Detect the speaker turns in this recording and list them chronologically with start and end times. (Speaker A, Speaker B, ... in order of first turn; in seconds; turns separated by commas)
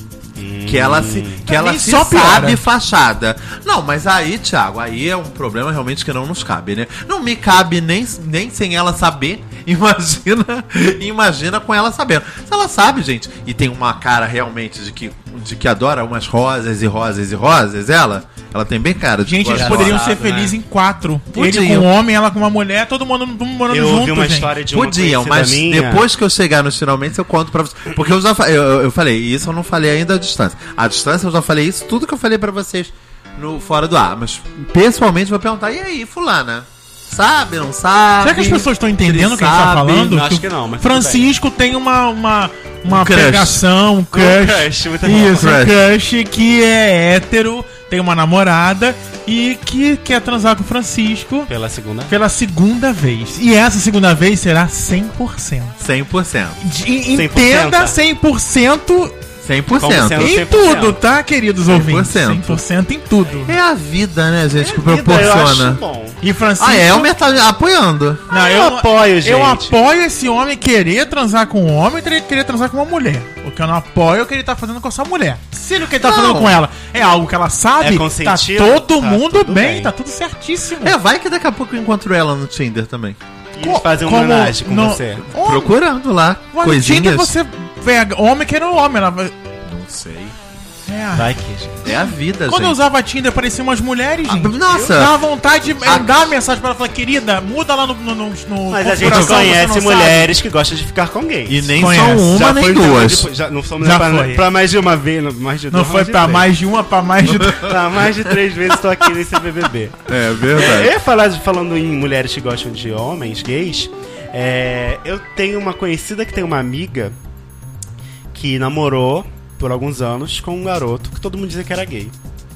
Speaker A: 0.4-1.5, Speaker B: 0.7-20.0, Speaker C: 1.5-2.6, Speaker C: 19.2-24.5, Speaker A: 19.5-20.6, Speaker B: 21.3-21.9, Speaker A: 23.7-26.0, Speaker B: 24.7-40.2, Speaker C: 38.2-51.5, Speaker A: 40.0-41.3, Speaker B: 42.9-43.6, Speaker A: 44.1-45.5, Speaker B: 45.3-45.8, Speaker A: 51.5-52.1, Speaker C: 52.1-55.8, Speaker B: 55.8-56.6, Speaker C: 56.6-59.1, Speaker A: 57.1-58.0, Speaker B: 59.4-60.4, Speaker A: 59.8-61.0, Speaker C: 60.2-63.5, Speaker B: 61.7-62.6, Speaker B: 63.4-65.8, Speaker A: 64.6-66.2, Speaker C: 66.2-67.1, Speaker B: 66.6-68.2, Speaker A: 68.3-69.8, Speaker C: 68.3-81.0, Speaker B: 75.9-76.6, Speaker A: 77.8-79.9, Speaker B: 80.8-83.2, Speaker A: 83.5-85.3, Speaker C: 83.6-85.7, Speaker B: 85.3-87.3, Speaker C: 86.5-89.3, Speaker B: 89.6-90.3, Speaker C: 90.9-91.3, Speaker A: 91.1-91.8, Speaker B: 91.8-92.8, Speaker C: 91.8-100.3, Speaker B: 94.2-95.1, Speaker A: 94.7-94.9, Speaker B: 95.8-96.3, Speaker A: 98.7-106.5, Speaker B: 99.0-99.6, Speaker B: 101.5-103.3, Speaker C: 101.8-102.4, Speaker C: 103.8-104.4, Speaker C: 105.7-107.7, Speaker B: 107.3-107.7, Speaker A: 107.5-117.1, Speaker B: 110.1-110.9, Speaker A: 118.3-122.1